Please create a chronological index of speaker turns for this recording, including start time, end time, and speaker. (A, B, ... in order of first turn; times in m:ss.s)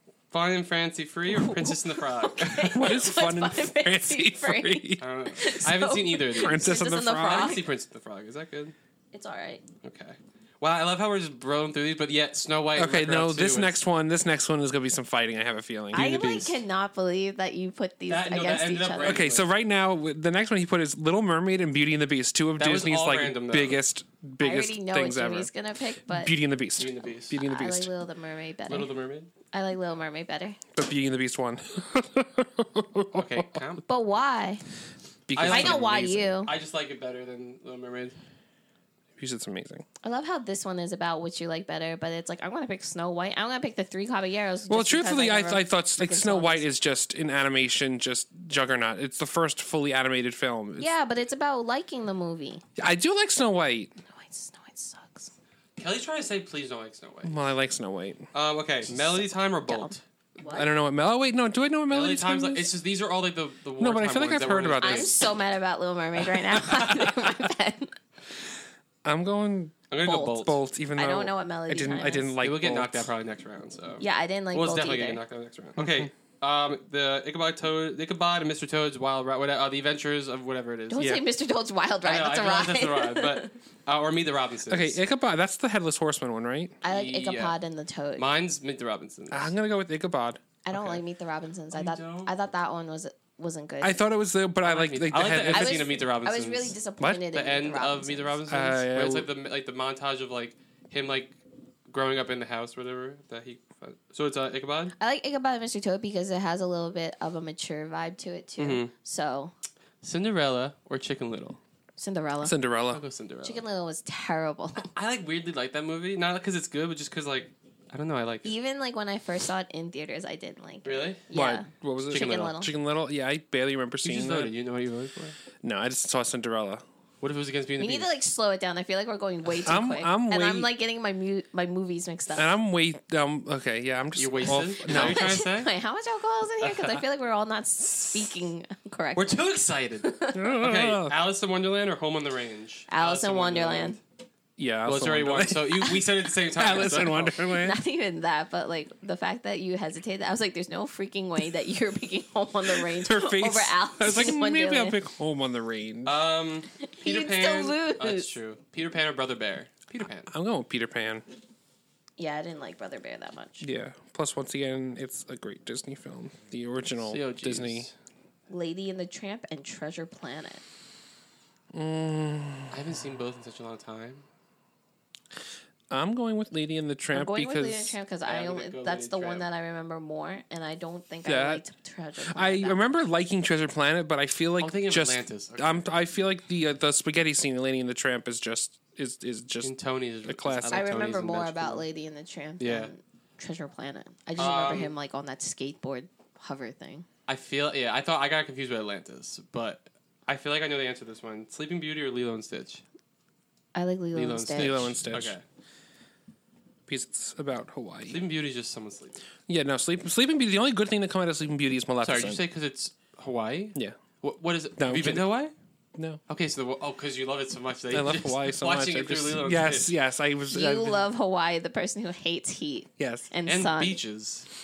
0:00.3-0:02.8 A
0:01.4-0:07.6 B
0:02.6-0:05.0 C
0:05.0-0:08.8 A
0:06.4-0:07.6 C
0:09.1-0:09.6 B
0:09.8-0:13.8 A
0:12.8-0:16.2 C
0:15.9-0:16.5 A
0:15.9-0:19.2 B
0:18.1-0:19.5 A
0:19.0-0:25.5 C
0:22.6-0:23.8 A
0:24.4-0:26.3 B
0:26.1-0:27.9 C
0:26.8-0:27.4 A
0:27.4-0:28.9 B
0:28.7-0:29.3 A
0:29.5-0:30.6 B
0:30.8-0:33.6 C
0:33.1-0:33.8 A
0:33.9-0:34.6 B
0:35.3-0:36.3 C
0:35.4-0:38.2 A
0:35.5-0:36.5 B
0:39.2-0:39.8 C
0:40.0-0:46.7 B
0:44.7-0:50.9 C
0:50.8-0:52.6 B
0:52.8-0:54.0 C
0:54.1-0:55.3 B
0:55.8-0:57.4 A
0:57.2-0:58.3 C
0:58.3-1:00.0 A
0:59.7-1:00.7 B
1:00.5-1:02.7 C
1:01.9-1:05.2 A
1:03.8-1:05.1 C
1:04.8-1:08.0 B
1:06.6-1:07.3 C
1:09.0-1:13.1 C
1:09.9-1:10.6 A
1:11.0-1:12.3 B
1:12.4-1:21.2 A
1:14.0-1:15.2 B
1:15.8-1:16.1 C
1:20.9-1:23.5 B
1:22.0-1:25.0 A
1:24.7-1:26.8 C
1:26.8-1:28.3 B
1:26.8-1:27.6 A
1:28.2-1:29.6 A
1:29.3-1:30.4 C
1:30.6-1:34.0 B
1:30.7-1:31.0 A
1:31.7-1:32.3 A
1:33.8-1:36.0 C
1:34.6-1:36.8 A
1:35.5-1:38.4 B
1:37.0-1:37.3 C
1:37.3-1:41.4 A
1:38.5-1:39.3 C
1:41.9-1:45.0 A
1:45.0-1:49.5 B
1:48.6-1:48.9 A
1:50.0-1:51.6 A
1:52.0-1:52.6 B
1:52.4-1:53.0 C
1:52.9-1:53.6 A
1:53.4-1:54.9 B
1:54.8-1:58.5 A
1:58.4-2:02.7 B
2:00.8-2:01.2 A
2:01.3-2:04.5 C
2:02.1-2:02.6 A
2:04.0-2:05.4 A
2:05.6-2:06.8 C
2:07.2-2:08.1 A
2:07.8-2:12.5 B
2:09.6-2:10.7 C
2:12.4-2:15.4 C
2:14.2-2:15.7 A
2:14.9-2:19.4 B
2:16.6-2:17.0 A
2:19.2-2:24.0 A
2:20.0-2:20.6 B
2:20.3-2:21.2 C
2:22.9-2:24.0 B
2:24.6-2:25.9 C
2:24.8-2:27.4 A
2:26.5-2:27.8 C
2:27.5-2:35.0 B
2:32.8-2:36.2 C
2:36.0-2:40.3 A
2:36.8-2:38.3 B
2:40.3-2:41.2 C
2:42.2-2:43.7 B
2:43.6-2:47.9 C
2:47.0-2:47.9 A
2:48.5-2:50.6 B
2:51.7-2:52.8 C
2:52.7-2:54.2 A
2:55.9-2:58.0 C
2:57.1-3:02.8 B
2:58.3-2:59.5 A
3:01.3-3:01.6 C
3:02.3-3:09.7 C
3:04.6-3:05.9 A
3:09.6-3:11.8 A
3:10.3-3:10.9 C
3:10.7-3:17.1 B
3:12.6-3:12.9 A
3:14.4-3:14.9 A
3:17.3-3:22.8 A
3:23.8-3:24.9 B
3:24.1-3:25.4 A
3:24.6-3:25.4 C
3:26.9-3:28.2 C
3:28.1-3:29.2 A
3:29.5-3:32.4 C
3:32.0-3:35.5 A
3:34.8-3:35.3 C
3:36.3-3:39.9 A
3:37.9-3:41.0 C
3:40.5-3:44.0 B
3:43.0-3:43.3 C
3:43.5-3:44.5 A